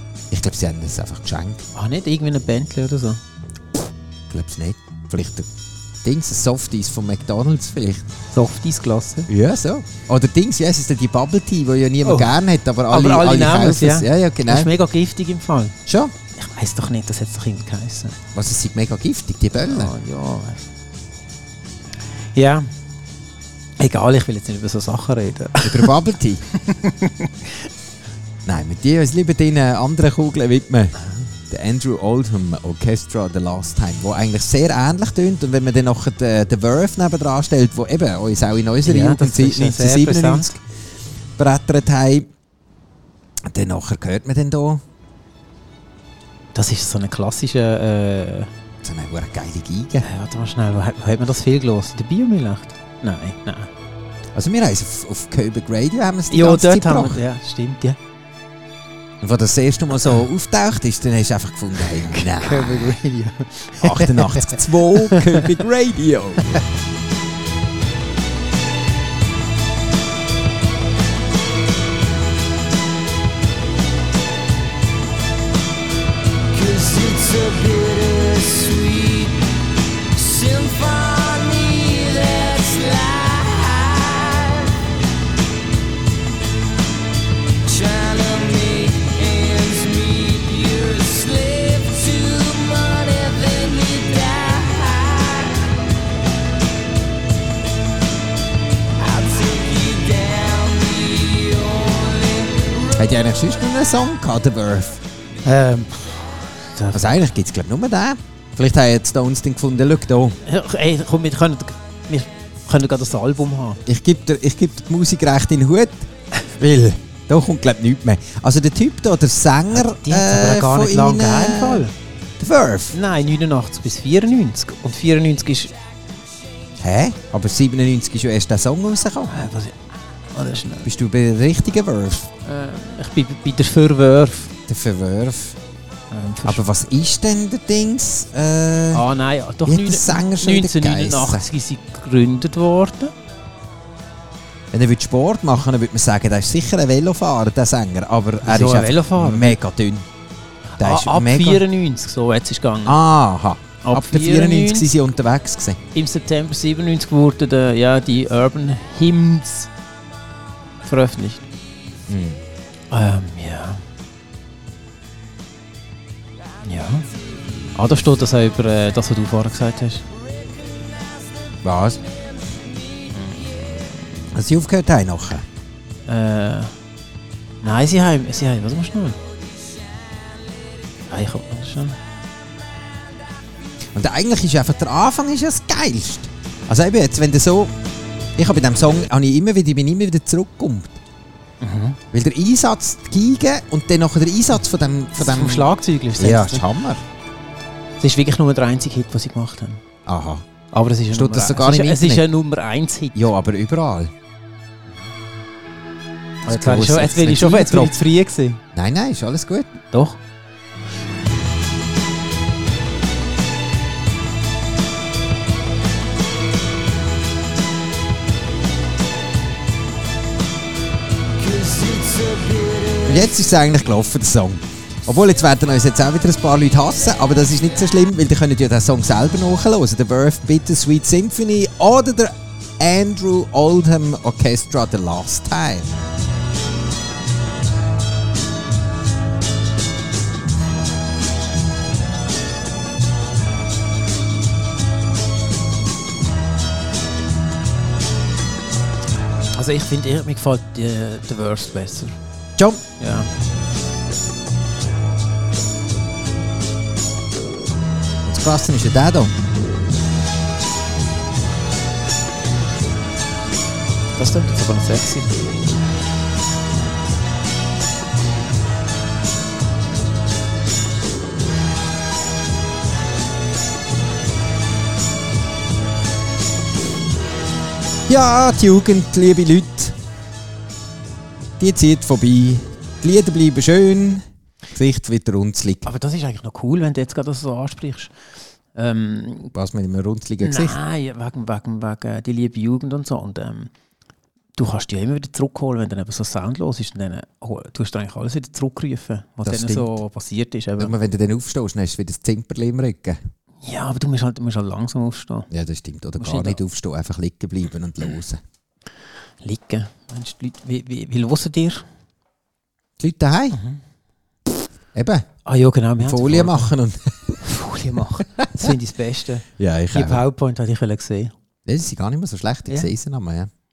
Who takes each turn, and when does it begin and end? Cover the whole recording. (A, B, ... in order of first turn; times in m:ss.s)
0:00.3-0:01.6 A
0:01.7-0:03.2 B
0:04.3-0:05.5 A
0:06.0-0:08.1 A
0:08.3-0:09.3 B
0:09.3-0:14.7 A
0:12.0-0:12.3 B
0:12.9-0:15.8 B
0:15.9-0:16.1 A
0:16.4-0:18.2 B
0:18.3-0:19.9 A
0:19.6-0:20.6 B
0:22.3-0:22.7 B
0:23.8-0:25.9 B
0:25.6-0:26.4 A
0:26.5-0:27.7 B
0:28.4-0:31.0 A
0:31.5-0:40.6 A
0:38.8-0:40.6 B
0:41.4-0:42.3 A
0:43.4-0:44.8 A
0:46.5-0:48.5 B
0:48.8-0:50.1 A
0:50.0-0:53.7 B
0:54.3-0:57.2 A
0:56.3-0:58.0 B
0:59.2-1:02.9 A
1:01.8-1:05.6 B
1:03.8-1:06.6 A
1:16.6-1:19.4 C
1:20.2-1:24.7 C
1:27.7-1:32.0 C
1:32.7-1:35.4 C
1:39.0-1:40.1 B
1:40.3-1:42.4 C
1:42.9-1:45.0 A
1:45.4-1:47.2 B
1:46.9-1:50.4 A
1:50.4-1:53.8 B
1:53.9-2:01.9 A
1:59.7-2:01.9 B
2:02.4-2:03.0 A
2:02.9-2:05.7 B
2:06.8-2:09.4 A
2:09.3-2:09.8 B
2:10.3-2:10.9 B
2:10.8-2:12.3 A
2:12.4-2:14.5 B
2:14.7-2:15.6 A
2:16.1-2:16.6 B
2:16.4-2:19.0 A
2:18.9-2:23.1 B
2:19.6-2:21.4 A
2:24.7-2:30.1 A
2:28.4-2:29.6 B
2:30.7-2:33.0 B
2:30.8-2:31.6 A
2:32.9-2:35.8 A
2:33.8-2:34.9 B
2:35.9-2:39.7 B
2:40.8-2:41.5 B
2:42.1-2:42.4 A
2:42.9-2:43.8 B
2:46.6-2:47.1 B
2:47.8-2:50.1 B
2:51.6-2:52.0 A
2:53.1-2:53.6 B
2:54.3-2:55.4 A
2:56.1-2:56.8 B
2:57.6-2:59.2 B
3:01.1-3:02.0 B
3:03.9-3:07.8 A
3:08.4-3:11.0 A
3:11.6-3:12.0 B
3:12.1-3:17.0 A
3:15.2-3:16.6 B
3:18.0-3:19.8 B
3:20.1-3:20.4 A
3:20.7-3:23.3 B
3:21.1-3:22.2 A
3:23.1-3:24.1 A
3:26.4-3:28.6 B
3:26.4-3:28.0 A
3:28.7-3:29.7 A
3:29.9-3:30.2 B
3:42.6-3:55.9 A
4:09.5-4:12.2 B
4:12.6-4:12.8 A
4:13.0-4:13.3 B
4:18.2-4:19.4 A
4:24.2-4:25.4 B
4:38.1-4:40.0 A
4:41.6-4:45.9 A
4:45.8-4:48.1 B
4:48.7-4:49.5 B
4:49.5-4:50.8 A
4:50.4-4:53.7 B
4:54.6-5:00.9 B
4:59.4-5:00.0 A
5:00.8-5:03.2 A
5:03.6-5:05.5 B
5:05.5-5:08.4 A
5:06.2-5:06.6 B
5:09.4-5:11.9 B
5:13.0-5:13.6 A
5:13.5-5:13.8 B
5:14.9-5:15.3 A
5:15.4-5:16.7 B
5:16.0-5:17.3 A
5:17.4-5:21.3 B
5:19.6-5:20.2 A
5:21.6-5:23.5 A